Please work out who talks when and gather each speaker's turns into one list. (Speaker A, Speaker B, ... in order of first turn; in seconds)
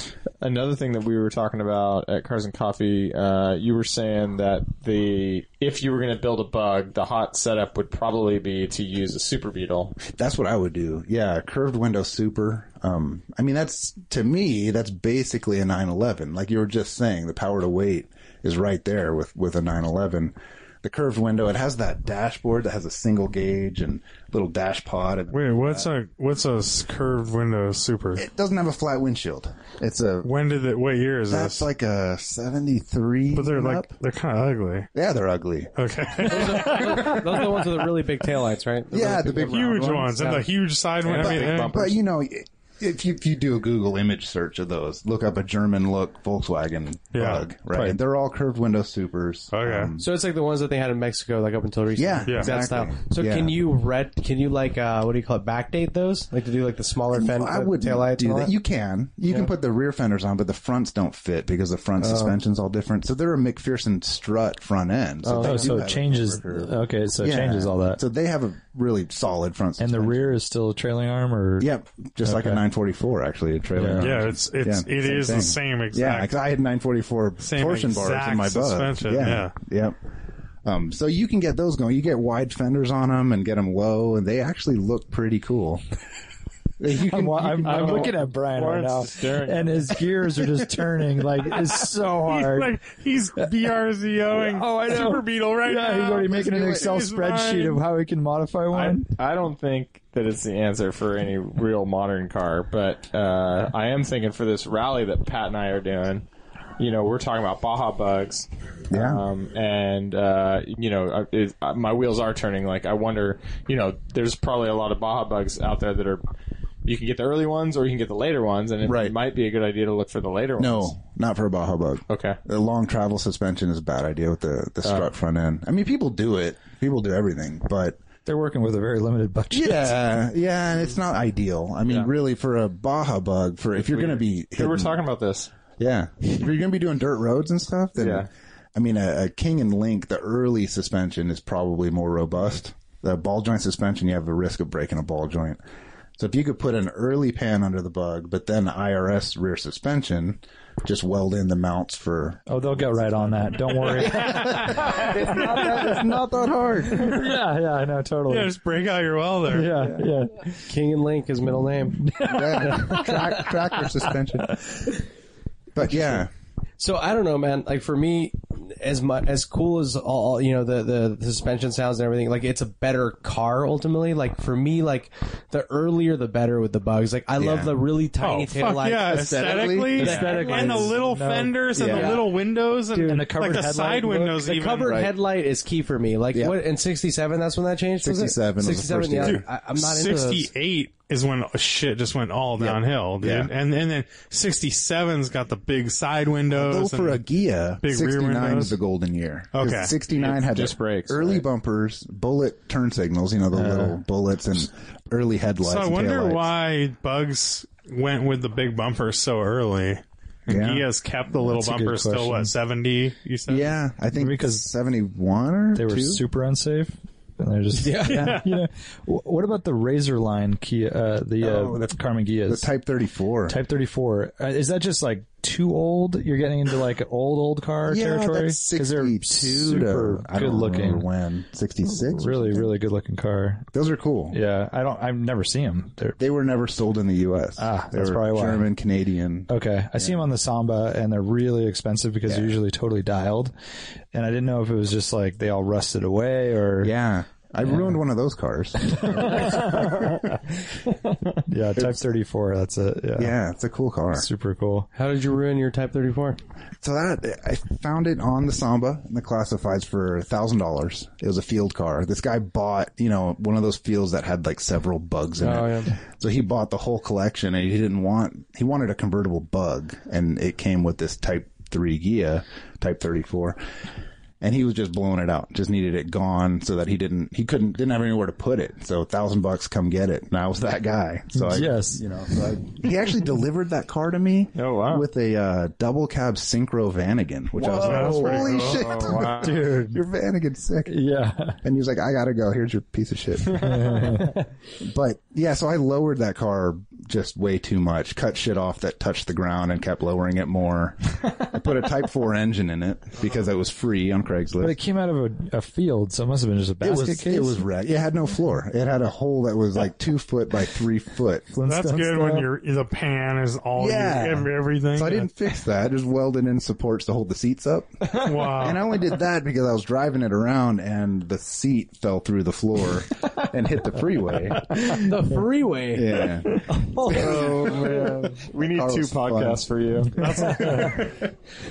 Speaker A: 0.4-9.9, 87.6-90.1, 98.7-106.3, 106.8-116.2, 116.8-120.9, 122.1-122.4, 124.8-125.1, 131.9-132.1, 133.8-135.5, 137.9-138.3, 200.1-201.4, 284.6-285.1, 287.8-289.6, 293.7-294.1, 327.1-330.6
Speaker B: 10.0-25.9, 28.2-30.3, 31.3-33.9, 34.9-37.5, 38.9-39.9, 41.1-50.1, 52.0-53.5, 57.1-70.4, 71.6-80.0, 80.6-85.8, 86.8-88.2, 108.9-109.2, 118.8-119.1, 120.6-128.0, 129.5-135.0, 135.8-145.6, 146.2-157.3, 162.2-164.9, 165.7-166.3, 177.4-177.8, 179.1-180.1, 181.7-182.2, 186.3-186.6, 188.0-189.4, 192.6-193.5, 196.5-206.5, 210.5-210.9, 213.5-216.2, 221.4-221.9, 222.4-223.6, 227.9-232.7, 233.7-234.4, 236.2-240.2, 242.3-242.5, 246.8-250.4, 253.2-254.3, 256.8-273.6, 274.4-291.0, 291.6-304.8, 306.8-311.5, 313.8-325.1, 325.9-331.3
Speaker C: 25.3-28.2, 30.2-31.7, 33.3-34.9, 35.8-37.4, 39.3-41.8, 47.1-47.5, 49.5-49.9, 52.3-52.5, 74.0-76.3, 77.4-79.5, 92.2-97.8, 154.2-154.8, 158.3-159.8, 178.2-185.1, 189.2-197.2, 197.8-198.8, 199.5-199.9, 205.6-213.7, 218.1-218.4, 287.7-288.9, 311.6-315.3, 318.1-318.9, 330.2-331.1
Speaker D: 36.2-40.5, 41.0-42.0, 50.0-58.5, 62.0-62.4, 65.2-65.8, 160.6-163.4, 166.8-180.9, 181.8-182.2, 184.4-190.5, 217.7-218.4, 254.9-256.4, 265.4-265.9, 324.7-328.1
Speaker E: 47.7-48.0, 65.4-68.0, 69.8-71.7, 72.2-72.6, 73.7-74.2, 86.9-92.8, 94.3-99.1, 128.3-130.2, 152.5-156.1, 156.9-158.5, 159.5-160.6, 162.0-163.5, 180.0-181.7, 182.9-184.4, 203.5-204.0, 211.3-212.5, 214.1-214.7, 215.7-222.7, 223.5-231.1, 231.9-233.7, 234.3-236.2, 237.6-238.7, 239.5-243.5, 244.1-246.9, 247.7-247.9, 248.8-249.9, 251.4-253.3, 254.1-254.9, 281.4-282.1, 287.6-290.0, 290.9-291.6, 293.5-294.4, 304.6-307.6, 311.5-312.5, 330.5-331.0